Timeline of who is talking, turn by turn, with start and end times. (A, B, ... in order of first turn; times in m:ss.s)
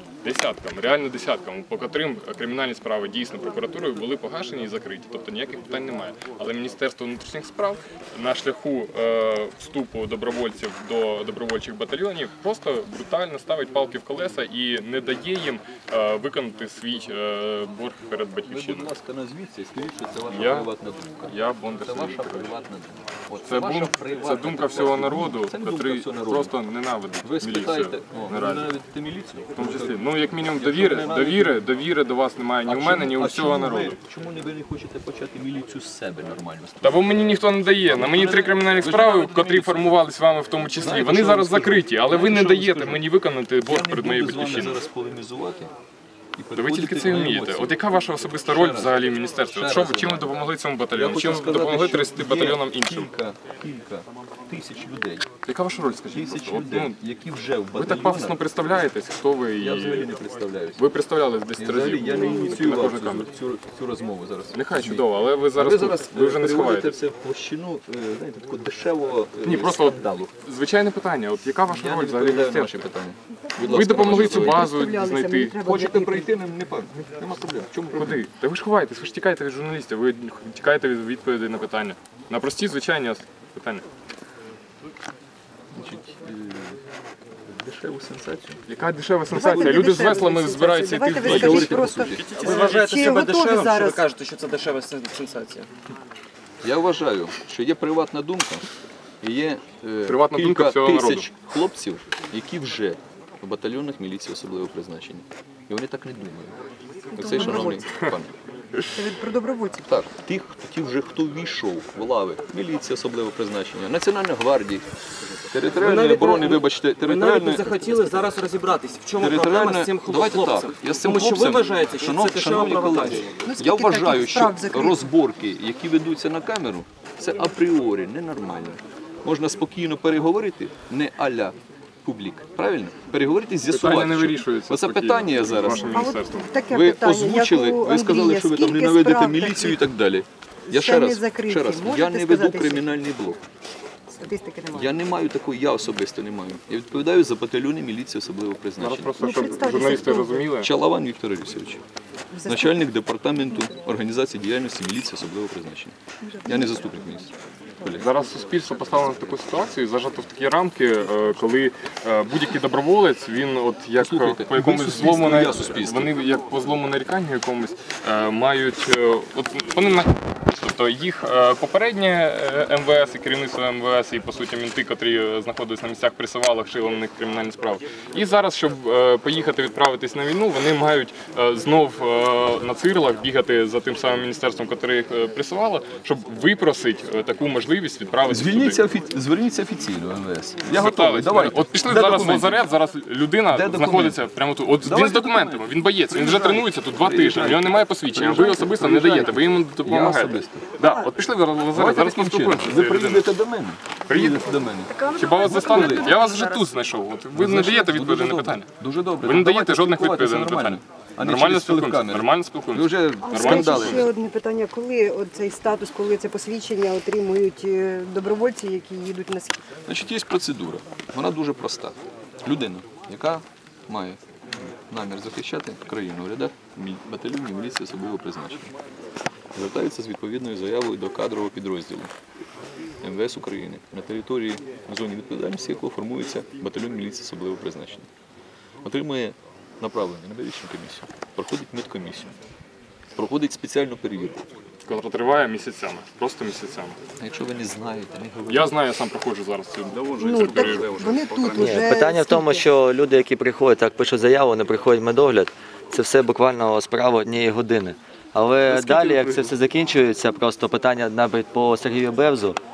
0:00.2-0:18.9 A
0:18.4-0:26.5 B
0:20.3-0:20.7 A
0:21.3-0:22.5 A
0:23.4-0:28.7 A
0:27.2-0:31.6 B
0:29.6-0:34.0 A
0:32.6-0:39.9 B
0:36.8-0:44.8 A
0:40.8-0:43.1 B
0:43.7-0:45.7 B
0:46.4-0:47.8 B
0:46.5-0:53.1 A
0:48.4-0:49.0 B
0:49.5-0:50.3 B
0:50.9-0:55.2 B
0:55.4-0:57.0 A
0:56.1-0:58.4 B
0:57.7-1:00.1 A
0:59.6-1:00.8 B
1:00.8-1:03.3 A
1:01.6-1:10.3 B
1:02.1-1:02.5 C
1:04.5-1:06.9 A
1:09.4-1:12.8 A
1:11.7-1:14.7 B
1:13.6-1:15.6 A
1:14.4-1:16.3 C
1:15.6-1:18.2 B
1:17.9-1:23.8 A
1:25.7-1:26.8 B
1:27.5-1:28.6 B
1:28.7-1:32.0 A
1:29.3-1:34.0 C
1:31.2-1:33.0 B
1:32.2-1:35.7 D
1:36.6-1:38.6 B
1:39.2-1:46.6 B
1:40.0-1:41.3 A
1:47.1-1:47.9 C
1:47.1-1:48.4 B
1:47.4-1:48.1 A
1:48.7-1:49.0 A
1:48.9-1:50.0 C
1:49.8-1:54.8 B
1:55.5-1:58.3 B
1:55.6-2:03.4 D
1:59.2-2:16.0 B
2:03.4-2:05.1 C
2:13.7-2:16.5 A
2:15.6-2:19.8 C
2:16.7-2:23.4 B
2:20.7-2:23.0 C
2:24.1-2:25.0 C
2:24.7-2:29.3 B
2:28.8-2:30.7 A
2:29.2-2:30.4 C
2:30.6-2:31.8 B
2:32.3-2:32.9 C
2:32.4-2:38.1 B
2:36.3-2:37.0 C
2:37.9-3:08.8 A
2:44.0-2:46.1 B
3:08.3-3:12.6 B
3:10.7-3:23.3 A
3:13.5-3:14.2 B
3:14.8-3:20.7 B
3:21.7-3:26.2 B
3:24.1-3:34.1 A
3:24.9-3:26.7 C
3:27.3-3:34.1 B
3:33.2-3:39.6 C
3:39.9-3:44.2 B
3:44.9-3:48.7 B
3:49.5-3:52.1 B
3:53.0-3:58.1 B
3:58.8-4:02.3 B
4:03.2-4:04.4 B
4:04.8-4:07.0 A
4:07.2-4:08.7 B
4:08.5-4:11.9 A
4:09.9-4:11.9 B
4:10.2-4:12.6 C
4:11.6-4:22.6 E
4:18.7-4:19.4 A